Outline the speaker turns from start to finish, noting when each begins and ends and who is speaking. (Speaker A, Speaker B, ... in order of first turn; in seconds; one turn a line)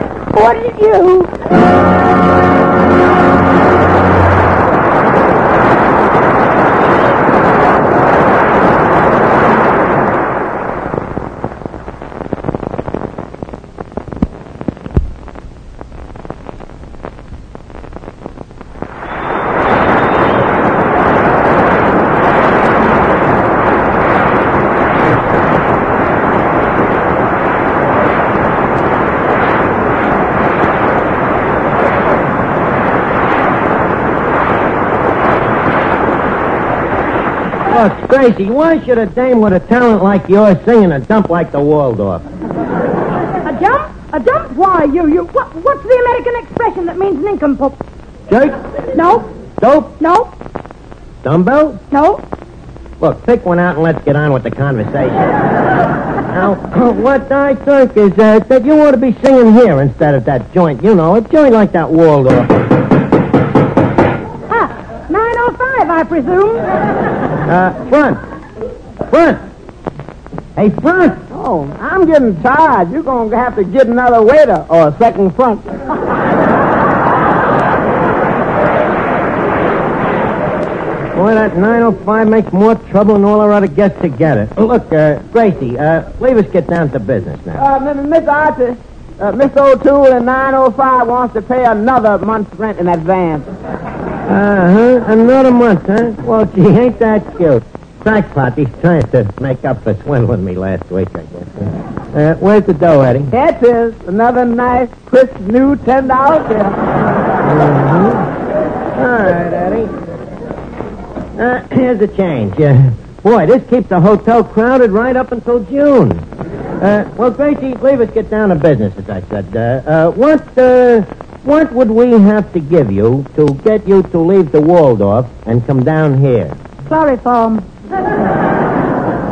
Speaker A: 0.3-1.3
Speaker B: 37.7-42.2
Speaker A: 43.4-47.8
Speaker B: 48.3-48.6
Speaker A: 48.9-49.3
Speaker B: 49.6-49.9
Speaker A: 50.0-50.3
Speaker B: 51.2-51.8
Speaker A: 51.9-52.2
Speaker B: 53.0-55.4
Speaker B: 56.3-62.5
Speaker A: 64.5-66.7
Speaker B: 67.5-68.2
Speaker B: 69.1-69.4
Speaker B: 70.5-71.2
Speaker C: 71.3-75.6
Speaker B: 81.1-87.7
Speaker C: 87.6-93.5
Speaker B: 94.3-103.3
Speaker C: 103.3-106.8
Speaker B: 107.4-108.3
Speaker B: 109.0-109.9
Speaker B: 111.4-116.2
Speaker B: 116.8-126.6
Speaker A: 126.9-127.7